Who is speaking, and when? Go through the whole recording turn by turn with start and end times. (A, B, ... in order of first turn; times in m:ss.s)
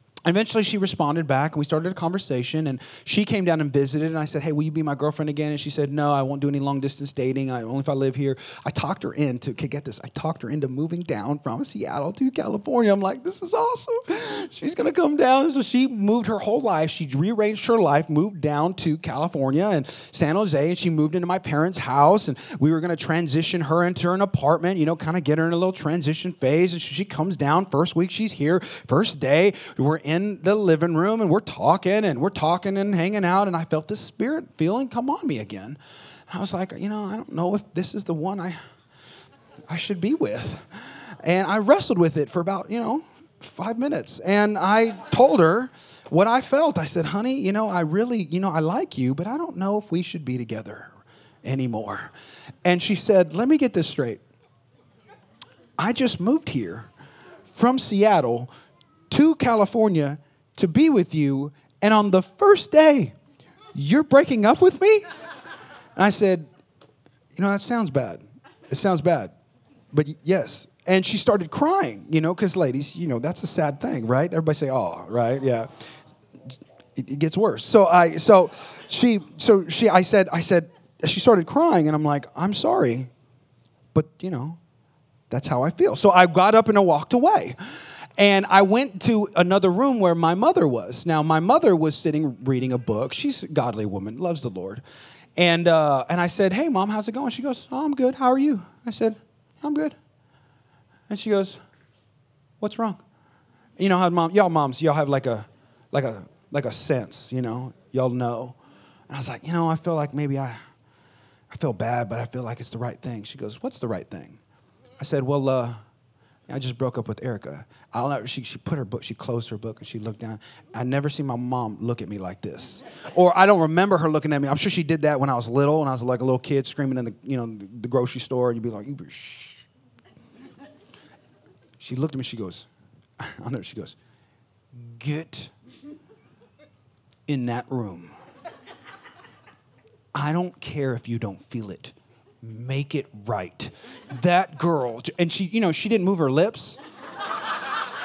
0:00.2-0:38.6 A
0:39.7-0:50.9 A
0:51.4-0:52.1 A
0:52.6-0:54.2 A
0:55.8-0:56.9 A
0:57.5-0:58.5 A
0:59.1-1:03.1 A
1:03.7-1:05.0 A
1:06.0-1:06.5 A
1:07.4-1:09.3 A
1:09.9-1:15.7 A
1:16.9-1:23.1 A
1:23.9-1:24.6 A
1:25.3-1:27.6 A
1:28.2-1:34.8 A
1:35.4-1:40.0 A
1:41.1-1:41.6 A
1:42.6-1:43.0 A
1:43.8-1:48.6 A
1:49.1-1:50.6 A
1:51.5-1:54.4 A
1:55.0-1:55.8 A
1:56.5-2:09.6 A
2:11.8-2:12.7 A
2:13.2-2:14.0 A
2:14.7-2:15.5 A
2:17.3-2:18.1 A
2:20.1-2:26.8 A